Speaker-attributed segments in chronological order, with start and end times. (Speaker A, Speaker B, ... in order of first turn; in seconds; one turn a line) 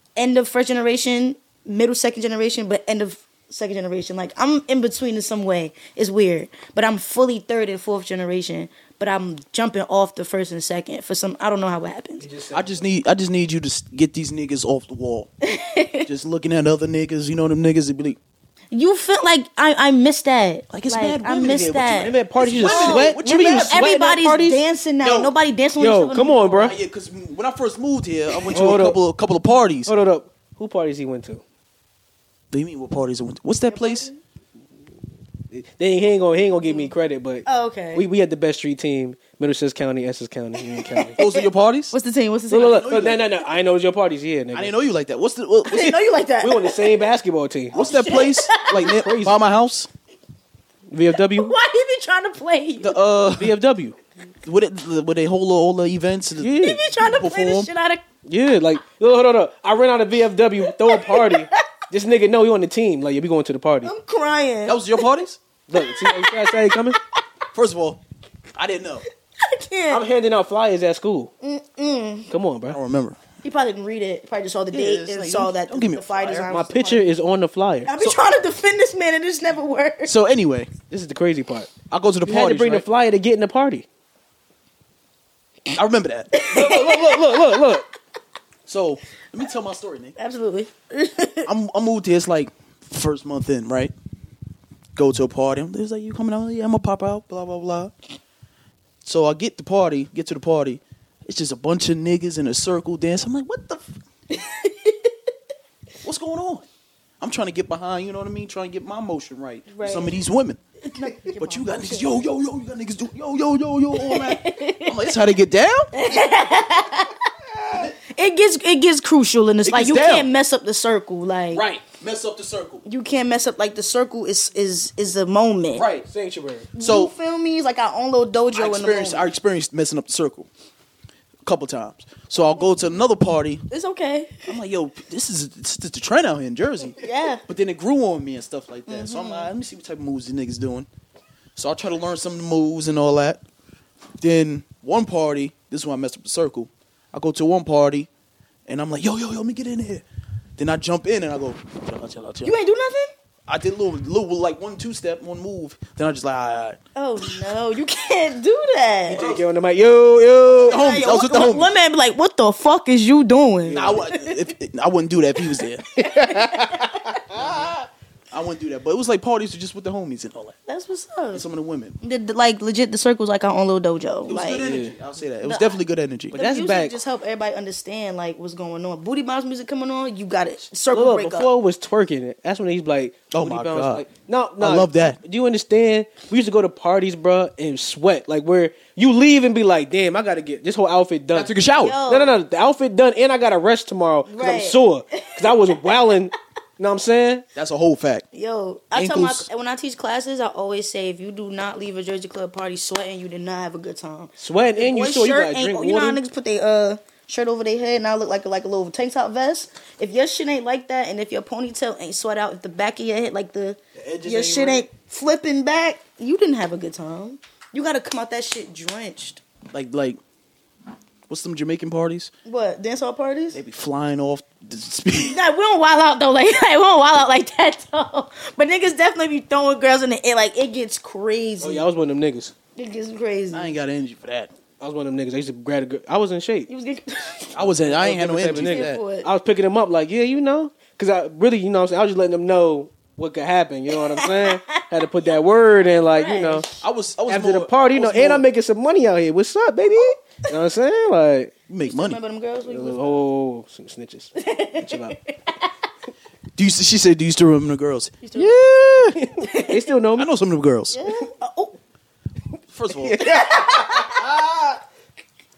Speaker A: 0.2-12.3
Speaker B: 12.2-12.8
Speaker C: 12.5-15.3
Speaker A: 15.4-16.1
Speaker C: 16.1-18.2
Speaker A: 18.7-26.7
Speaker C: 20.7-23.9
Speaker B: 21.9-24.6
Speaker C: 25.0-25.3
Speaker B: 25.8-26.8
Speaker C: 26.6-29.9
Speaker B: 28.5-29.0
Speaker B: 29.9-31.4
Speaker C: 32.5-34.1
Speaker A: 33.7-34.2
Speaker B: 35.5-41.2
Speaker A: 36.6-36.9
Speaker A: 37.5-38.0
Speaker A: 40.6-43.0
Speaker C: 41.2-42.0
Speaker B: 42.5-44.7
Speaker C: 42.6-43.2
Speaker C: 44.5-46.0
Speaker A: 45.7-47.0
Speaker B: 46.4-47.8
Speaker C: 47.7-49.9
Speaker A: 47.7-48.9
Speaker B: 48.7-49.4
Speaker B: 50.9-51.5
Speaker A: 51.1-53.0
Speaker C: 52.8-53.5
Speaker B: 53.4-54.0
Speaker C: 54.5-57.7
Speaker B: 56.4-56.9
Speaker A: 56.6-58.0
Speaker B: 58.3-63.9
Speaker A: 60.7-61.6
Speaker A: 63.8-65.1
Speaker C: 64.7-65.4
Speaker B: 65.7-67.0
Speaker A: 65.8-67.0
Speaker C: 67.5-68.0
Speaker C: 68.6-69.0
Speaker A: 69.4-70.0
Speaker B: 69.9-71.3
Speaker A: 71.4-72.3
Speaker B: 72.3-72.8
Speaker C: 72.7-73.2
Speaker A: 73.4-77.1
Speaker C: 74.7-76.5
Speaker B: 76.5-77.9
Speaker A: 77.9-80.1
Speaker C: 80.0-80.7
Speaker B: 80.9-81.7
Speaker C: 81.9-82.9
Speaker B: 82.2-83.9
Speaker C: 85.7-86.4
Speaker A: 86.3-87.8
Speaker B: 86.5-87.8
Speaker C: 88.7-90.2
Speaker A: 90.2-91.5
Speaker C: 91.5-93.9
Speaker C: 95.0-97.9
Speaker C: 99.0-104.0
Speaker A: 104.3-105.1
Speaker C: 106.0-106.7
Speaker C: 107.2-110.6
Speaker A: 109.7-110.2
Speaker A: 110.9-112.2
Speaker C: 111.3-115.9
Speaker A: 113.9-115.1
Speaker A: 115.9-117.2
Speaker A: 118.1-121.7
Speaker C: 119.6-120.3
Speaker C: 121.5-122.8
Speaker A: 122.8-125.9
Speaker C: 125.8-126.1
Speaker B: 126.0-126.7
Speaker A: 126.8-129.3
Speaker C: 126.8-127.1
Speaker C: 128.5-130.5
Speaker C: 131.4-133.6
Speaker A: 133.7-134.5
Speaker C: 134.4-140.9
Speaker A: 137.0-137.4
Speaker A: 138.9-139.5
Speaker C: 141.6-143.4
Speaker C: 144.2-148.1
Speaker C: 148.7-150.1
Speaker C: 150.6-152.5
Speaker A: 152.4-153.1
Speaker C: 153.5-156.8
Speaker A: 157.0-159.3
Speaker B: 159.1-160.8
Speaker C: 159.2-159.4
Speaker A: 160.5-164.5
Speaker C: 160.6-161.7
Speaker B: 163.7-164.0
Speaker C: 163.7-165.8
Speaker A: 165.4-167.2
Speaker B: 166.0-167.7
Speaker C: 167.3-167.8
Speaker C: 168.3-170.6
Speaker A: 170.7-171.4
Speaker C: 171.3-172.0
Speaker A: 172.0-174.7
Speaker C: 174.3-176.4
Speaker B: 174.6-175.0
Speaker A: 175.4-181.5
Speaker B: 176.3-176.9
Speaker B: 180.9-191.5
Speaker C: 183.3-184.1
Speaker C: 184.6-185.2
Speaker C: 191.3-192.0
Speaker A: 191.8-192.4
Speaker B: 192.1-197.4
Speaker A: 194.3-196.2
Speaker C: 197.6-198.3
Speaker A: 198.3-219.4
Speaker C: 198.9-199.5
Speaker B: 204.4-206.2
Speaker B: 214.0-214.8
Speaker C: 219.7-220.2
Speaker C: 221.3-222.3
Speaker A: 222.5-223.6
Speaker C: 223.5-225.4
Speaker A: 225.2-231.8
Speaker B: 231.6-232.5
Speaker A: 232.8-233.7
Speaker C: 233.5-234.5
Speaker B: 234.8-236.7
Speaker A: 236.7-237.6
Speaker C: 237.5-239.0
Speaker B: 237.7-246.7
Speaker A: 238.5-239.3
Speaker A: 243.9-245.3
Speaker A: 245.9-246.8
Speaker C: 246.8-248.4
Speaker B: 247.3-251.5
Speaker C: 251.7-252.2
Speaker A: 251.8-253.2
Speaker B: 252.7-255.2
Speaker A: 254.4-255.7
Speaker C: 256.6-259.2
Speaker A: 258.2-258.6
Speaker B: 259.2-260.3
Speaker A: 259.4-259.9
Speaker C: 260.2-261.0
Speaker A: 260.9-261.8
Speaker C: 262.7-263.2
Speaker B: 263.0-264.8
Speaker A: 263.2-264.3